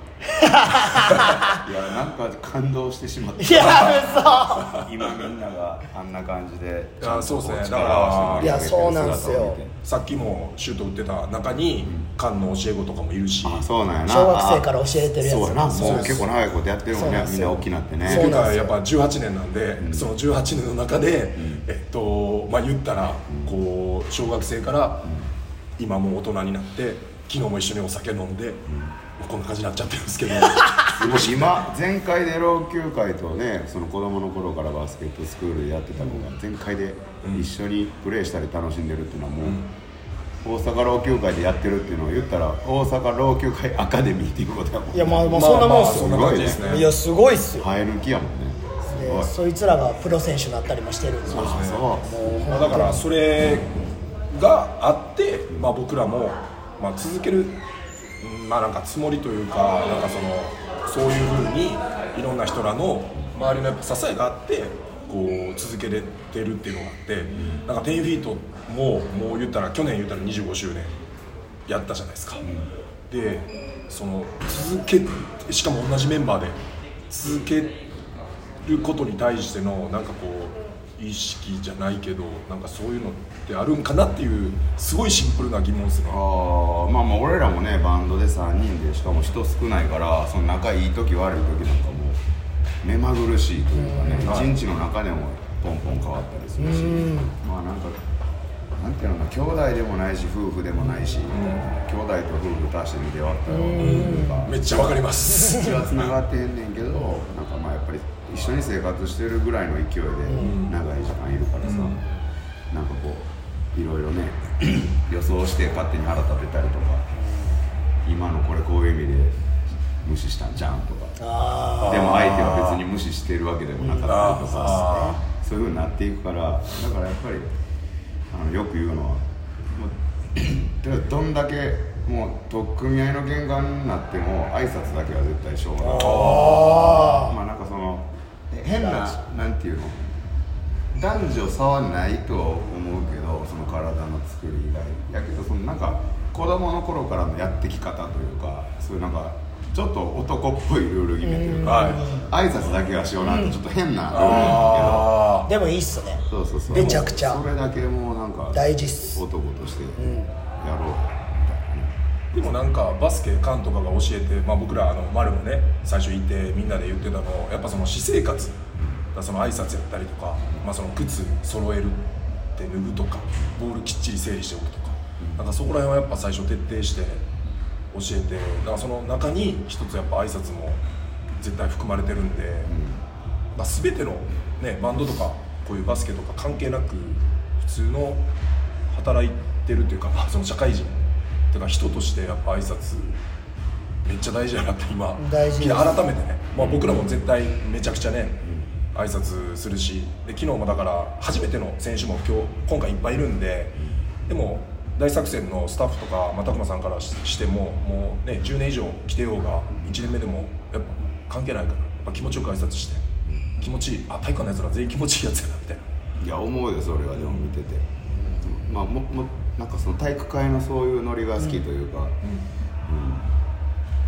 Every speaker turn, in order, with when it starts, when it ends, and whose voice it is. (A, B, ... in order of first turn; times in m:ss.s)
0:00.3-0:01.6 A
0:00.9-0:01.4 B
0:01.4-0:04.0 C
0:03.4-0:04.8 A
0:03.6-0:03.9 B
0:04.6-0:09.8 C
0:07.0-0:08.6 B
0:08.4-0:09.6 A
0:09.8-0:13.7 B
0:11.8-0:12.1 C
0:13.4-0:14.7 C
0:14.1-0:16.3 A
0:15.2-0:18.5 C
0:15.8-0:16.2 B
0:16.9-0:18.8 A
0:18.0-0:25.1 B
0:19.8-0:20.1 C
0:21.4-0:21.6 C
0:23.3-0:23.6 C
0:25.0-0:25.3 C
0:25.8-0:28.6 B
0:28.7-0:29.0 C
0:29.2-0:31.7 B
0:30.9-0:39.6 C
0:39.4-0:39.7 B
0:40.4-0:46.7 C
0:44.9-0:47.7 A
0:45.3-0:46.9 B
0:47.6-0:49.3 C
0:48.9-0:53.0 A
0:51.2-0:52.2 C
0:51.3-0:51.9 B
0:52.5-0:53.7 B
0:54.3-0:57.6 B
0:58.2-1:11.0 B
1:07.3-1:07.6 C
1:11.7-1:12.4 B
1:12.4-1:12.7 C
1:13.1-1:16.6 B
1:17.1-1:17.8 B
1:18.6-1:26.2 B
1:26.1-1:32.2 C
1:32.8-1:38.0 C
1:33.8-1:34.3 A
1:34.2-1:34.5 B
1:36.6-1:37.3 A
1:38.8-1:52.0 C
1:41.3-1:41.7 B
1:43.5-1:44.4 A
1:43.8-1:46.1 B
1:45.3-1:45.7 A
1:50.3-1:50.6 A
1:50.4-1:50.7 B
1:51.6-1:52.0 B
1:52.7-1:57.1 C
1:58.0-1:59.4 C
2:00.0-2:01.2 C
2:01.2-2:02.2 A
2:01.8-2:02.8 B
2:01.8-2:07.5 C
2:03.8-2:05.2 A
2:04.0-2:05.2 B
2:08.3-2:20.2 C
2:15.8-2:17.3 A
2:16.0-2:17.0 B
2:18.8-2:19.2 A
2:20.9-2:35.1 C
2:31.2-2:32.3 A
2:31.6-2:32.1 B
2:33.3-2:33.5 A
2:34.1-2:35.5 B
2:35.5-2:37.4 A
2:36.3-2:41.9 C
2:36.7-2:37.1 B
2:38.5-2:39.2 A
2:40.0-2:40.3 A
2:42.3-2:48.6 B
2:49.1-2:57.2 B
2:55.2-2:55.5 C
2:57.9-3:00.8 B
3:01.4-3:02.7 B
3:02.7-3:03.0 C
3:03.6-3:08.2 B
3:08.9-3:11.0 B
3:11.5-3:13.2 B
3:14.0-3:18.4 B
3:15.2-3:16.0 A
3:16.6-3:17.1 C
3:18.9-3:23.8 B
3:24.3-3:33.0 B
3:33.3-3:33.6 C
3:33.6-3:35.9 B
3:36.2-3:37.9 C
3:37.1-3:37.5 B
3:38.4-3:42.2 C
3:42.8-3:43.3 C